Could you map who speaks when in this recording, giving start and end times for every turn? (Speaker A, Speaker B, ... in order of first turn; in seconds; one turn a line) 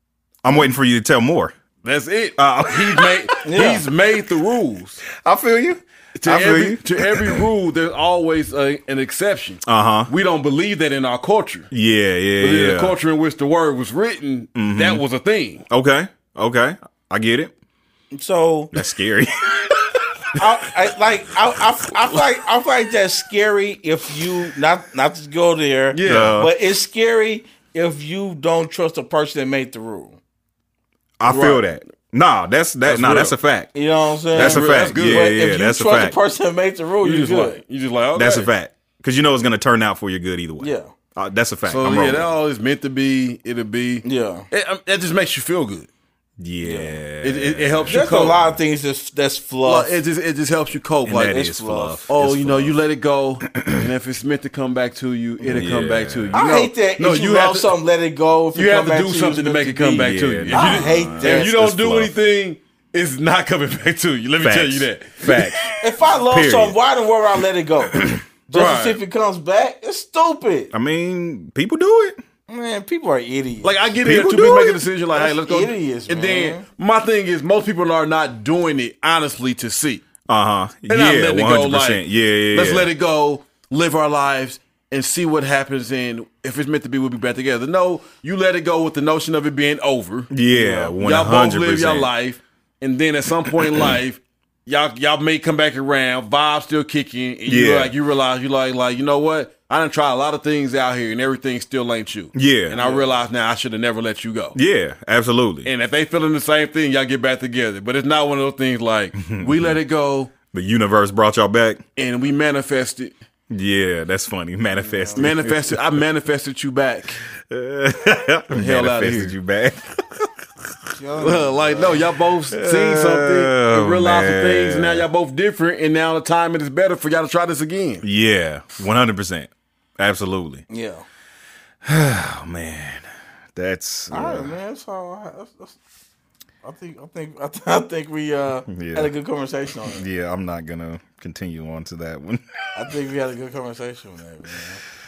Speaker A: 0.4-1.5
Speaker B: 1.8-5.0
Speaker A: 2.4-3.7
Speaker C: 3.4-3.9
Speaker A: 5.2-7.4
Speaker B: 6.1-11.7
Speaker A: 9.7-10.1
Speaker A: 11.7-12.9
Speaker B: 12.4-15.7
Speaker A: 14.5-15.0
Speaker A: 15.7-17.5
Speaker C: 18.1-18.7
Speaker A: 18.7-20.4
Speaker C: 20.4-30.2
Speaker B: 25.9-26.4
Speaker A: 26.0-26.5
Speaker A: 31.2-33.7
Speaker C: 31.2-31.6
Speaker B: 32.8-33.4
Speaker C: 33.7-37.6
Speaker A: 34.3-36.2
Speaker B: 34.3-35.5
Speaker B: 37.0-38.5
Speaker A: 38.1-42.2
Speaker C: 40.6-40.9
Speaker B: 41.6-45.9
Speaker C: 44.0-44.5
Speaker A: 46.4-48.5
Speaker C: 46.6-47.0
Speaker B: 47.2-48.4
Speaker C: 47.9-50.0
Speaker B: 49.6-51.4
Speaker A: 51.0-52.8
Speaker C: 51.2-52.0
Speaker B: 52.1-57.8
Speaker C: 55.4-55.6
Speaker A: 55.5-56.5
Speaker C: 56.3-61.6
Speaker B: 58.5-65.7
Speaker A: 60.0-62.1
Speaker A: 64.4-65.7
Speaker C: 65.8-70.7
Speaker A: 66.3-66.8
Speaker B: 68.5-69.0
Speaker A: 70.7-72.2
Speaker C: 72.5-73.8
Speaker B: 73.6-80.0
Speaker A: 74.0-74.8
Speaker C: 75.1-76.6
Speaker A: 80.3-82.9
Speaker B: 80.9-104.5
Speaker A: 90.3-92.1
Speaker A: 97.5-97.9
Speaker A: 102.3-102.8
Speaker C: 102.8-103.1
Speaker A: 104.5-105.7
Speaker B: 105.6-110.3
Speaker A: 109.2-109.8
Speaker A: 110.5-111.8
Speaker B: 112.0-113.1
Speaker A: 113.5-115.8
Speaker C: 114.8-115.3
Speaker B: 115.2-117.2
Speaker A: 117.5-119.9
Speaker B: 118.5-119.3
Speaker C: 120.9-122.0
Speaker B: 121.2-128.0
Speaker A: 122.5-125.1
Speaker A: 128.0-130.6
Speaker C: 130.7-131.1
Speaker A: 131.8-133.0
Speaker A: 133.6-134.5
Speaker C: 134.1-135.8
Speaker C: 136.6-140.0
Speaker A: 138.7-139.1
Speaker A: 139.9-142.4
Speaker C: 142.7-144.8